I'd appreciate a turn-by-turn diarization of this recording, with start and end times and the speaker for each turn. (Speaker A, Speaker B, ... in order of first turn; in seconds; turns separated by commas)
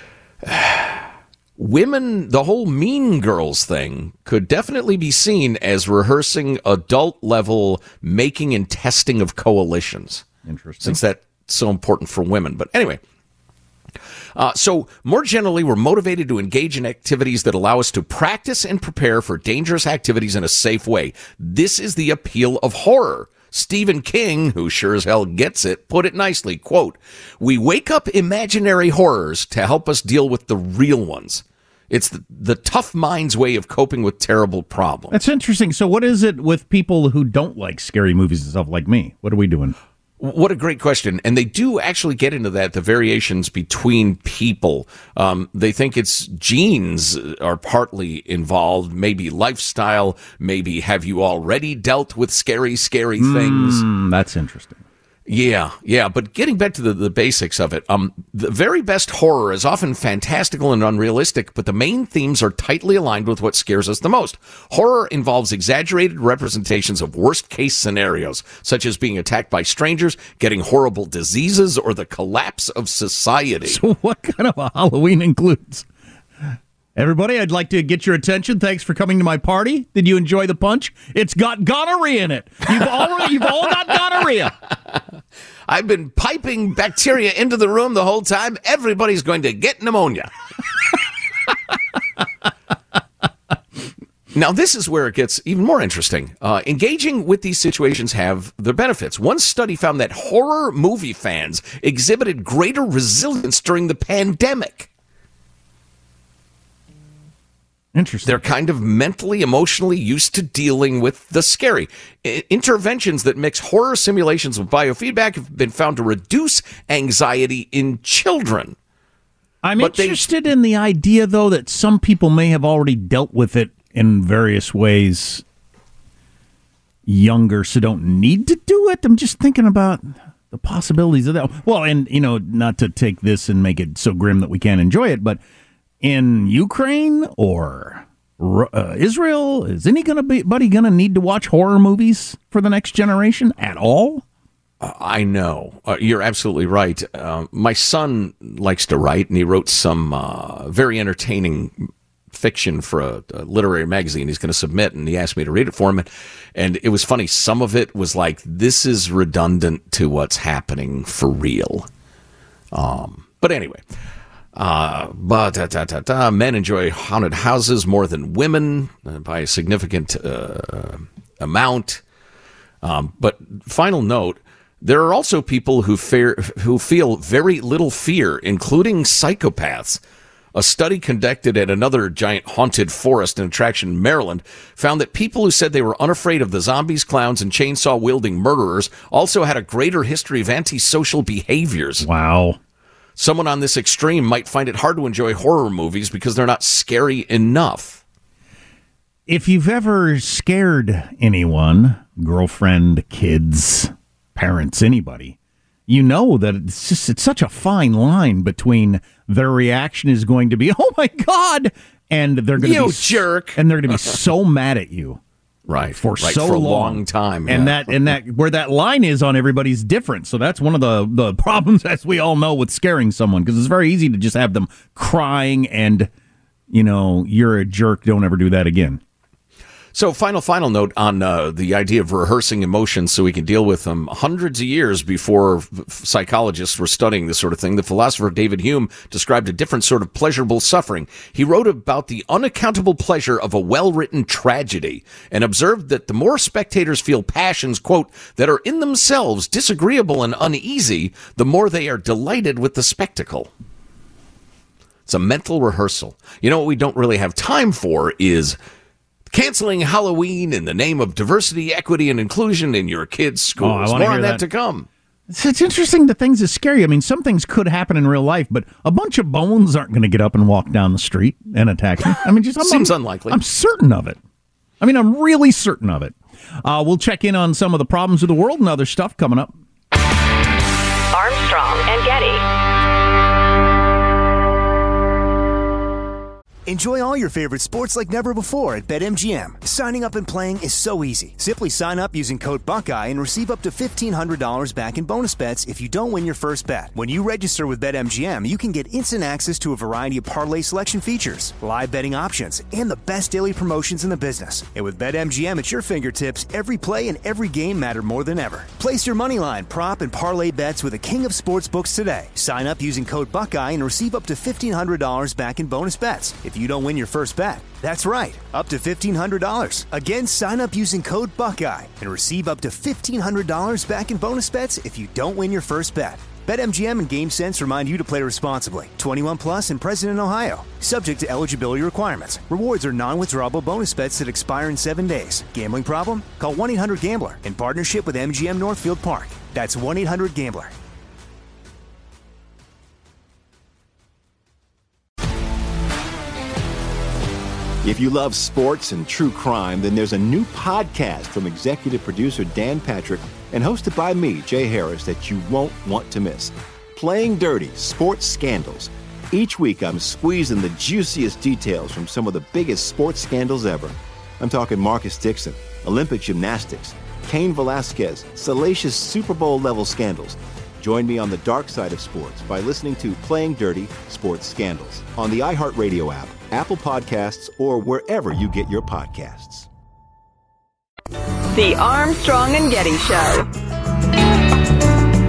Speaker A: 0.4-10.3, Speaker B: 10.5-11.0, Speaker A: 10.8-13.0, Speaker A: 14.3-35.1, Speaker B: 35.1-39.8, Speaker A: 40.2-53.8, Speaker B: 53.2-54.8, Speaker A: 55.3-73.8, Speaker B: 73.7-75.9, Speaker B: 77.0-84.5, Speaker A: 85.7-90.3, Speaker A: 94.3-104.9, Speaker B: 108.0-108.4, Speaker A: 108.2-118.8, Speaker B: 119.6-125.4, Speaker A: 119.8-120.2, Speaker B: 127.1-135.4, Speaker B: 136.0-144.2, Speaker A: 144.8-161.9, Speaker A: 162.7-163.8, Speaker A: 164.6-172.0, Speaker A: 172.8-180.0, Speaker A: 180.5-192.1, Speaker B: 192.0-192.6, Speaker A: 193.2-198.0, Speaker B: 199.3-205.4, Speaker B: 205.9-215.2, Speaker A: 212.6-214.2, Speaker A: 215.7-217.9, Speaker B: 216.0-226.1, Speaker B: 226.7-229.0, Speaker A: 229.9-253.5, Speaker A: 255.1-258.6, Speaker A: 259.3-264.9, Speaker B: 263.6-264.4, Speaker B: 265.3-274.2, Speaker A: 272.6-273.4, Speaker B: 274.8-279.5, Speaker C: 281.1-282.5, Speaker D: 286.7-340.7, Speaker E: 347.8-379.7, Speaker C: 381.5-383.5